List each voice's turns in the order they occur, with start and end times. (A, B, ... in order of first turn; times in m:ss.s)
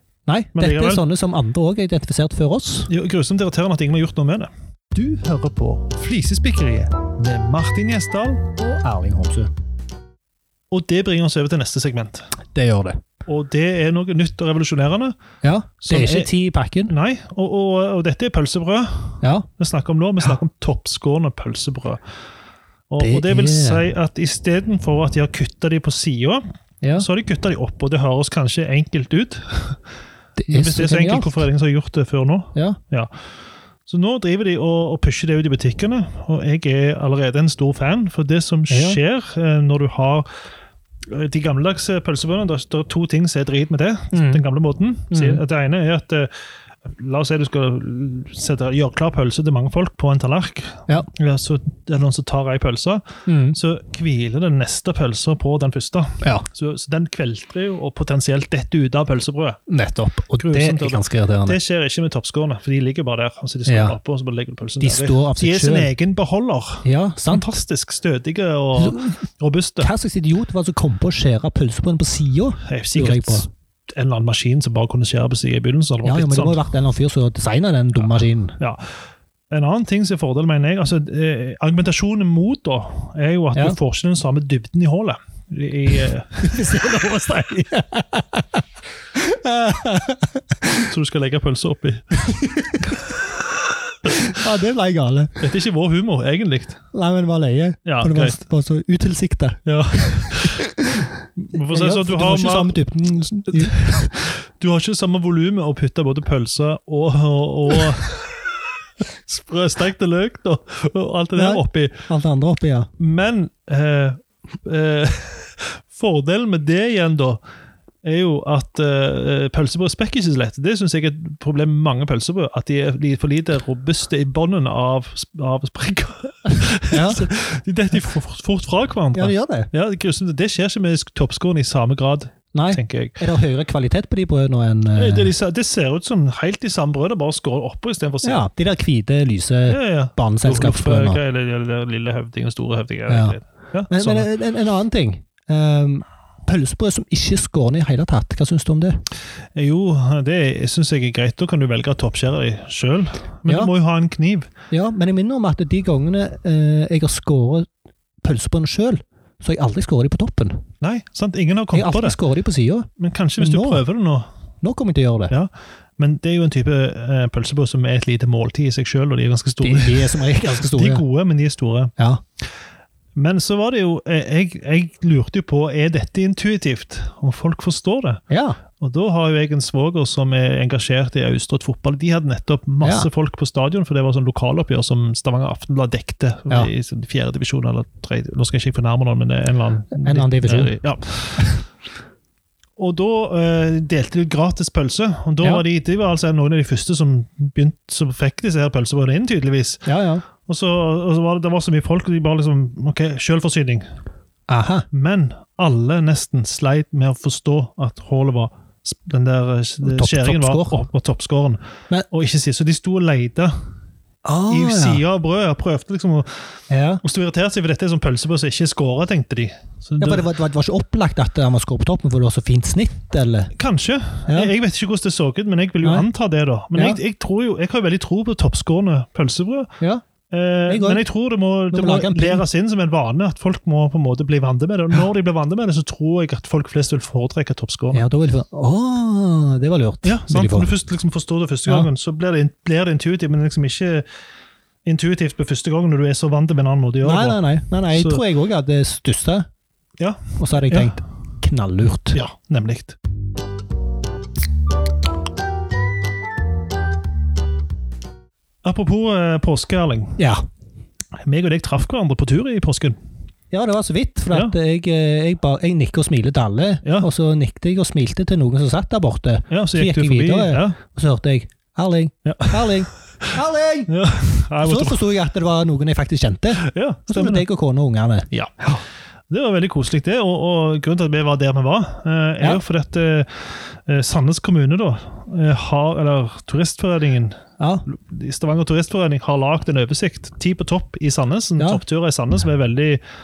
0:00.3-0:02.9 A
0:00.6-0:01.0 B
0:02.9-0:08.4 B
0:08.6-0:09.5 A
0:10.7-0:12.3 B
0:12.5-0:13.0 A
0:13.3-0:15.2 B
0:15.4-0:16.9 A
0:15.8-0:16.3 B
0:16.9-0:22.0 B
0:19.2-0:19.5 A
0:22.9-0:26.4 B
0:23.0-0:23.8 A
0:26.8-0:27.1 A
0:27.0-0:29.8 B
0:30.4-0:31.4 A
0:30.5-0:33.1 B
0:33.9-0:40.2 B
0:38.7-0:39.0 A
0:41.1-0:46.3 B
0:44.1-0:44.4 A
0:45.1-0:45.4 A
0:46.9-0:59.6 B
0:53.3-0:53.6 A
0:59.7-1:01.6 A
1:00.4-1:09.9 B
1:03.7-1:04.0 A
1:04.8-1:05.9 A
1:06.8-1:07.5 A
1:08.8-1:09.2 A
1:09.8-1:13.5 A
1:12.6-1:16.6 B
1:16.0-1:18.6 A
1:18.0-1:18.9 B
1:19.5-1:26.7 B
1:26.4-1:28.6 A
1:29.1-1:30.9 A
1:30.9-1:32.2 B
1:32.2-1:33.1 A
1:34.0-1:35.4 A
1:34.1-1:34.3 B
1:35.4-1:36.8 B
1:36.9-1:41.1 A
1:37.8-1:38.4 B
1:39.6-1:40.6 B
1:41.4-1:42.8 B
1:41.7-1:44.2 A
1:43.5-1:52.0 B
1:51.4-1:52.9 A
1:53.0-1:57.4 B
1:58.0-2:13.2 B
2:06.9-2:07.3 A
2:09.1-2:09.7 A
2:12.5-2:15.3 A
2:14.9-2:18.5 B
2:18.2-2:21.2 A
2:19.7-2:24.3 B
2:23.1-2:23.4 A
2:23.9-2:29.0 A
2:29.6-2:34.5 B
2:34.7-2:37.7 A
2:38.2-2:40.6 A
2:40.8-2:42.2 B
2:41.7-2:43.8 A
2:43.0-2:44.3 B
2:44.6-2:45.3 A
2:45.3-2:51.9 B
2:49.6-2:51.0 A
2:52.0-2:52.2 A
2:53.2-2:58.2 B
2:58.3-2:58.6 A
2:58.8-3:11.6 B
3:02.8-3:03.1 A
3:10.0-3:10.7 A
3:12.8-3:19.9 B
3:19.8-3:20.2 A
3:20.5-3:23.8 B
3:24.5-3:24.9 A
3:24.9-3:33.6 B
3:29.8-3:30.8 A
3:34.2-3:35.0 A
3:34.5-3:40.3 B
3:36.7-3:37.0 A
3:40.0-3:43.5 A
3:43.6-3:49.7 B
3:46.7-3:47.0 A
3:50.3-3:58.0 B
3:50.7-3:51.0 A
3:51.7-3:52.4 A
3:57.9-4:00.7 A
4:00.0-4:04.0 B
4:04.8-4:07.4 B
4:07.0-4:09.5 A
4:07.9-4:08.2 B
4:10.0-4:11.0 B
4:10.4-4:12.2 A
4:12.1-4:13.0 B
4:18.6-4:20.2 B
4:20.2-4:20.4 A
4:21.2-4:23.0 B
4:23.5-4:33.9 A
4:29.5-4:30.8 B
4:32.3-4:33.3 B
4:33.9-4:35.0 B
4:34.6-4:38.8 A
4:36.6-4:37.4 B
4:38.3-4:53.0 B
4:47.6-4:47.8 A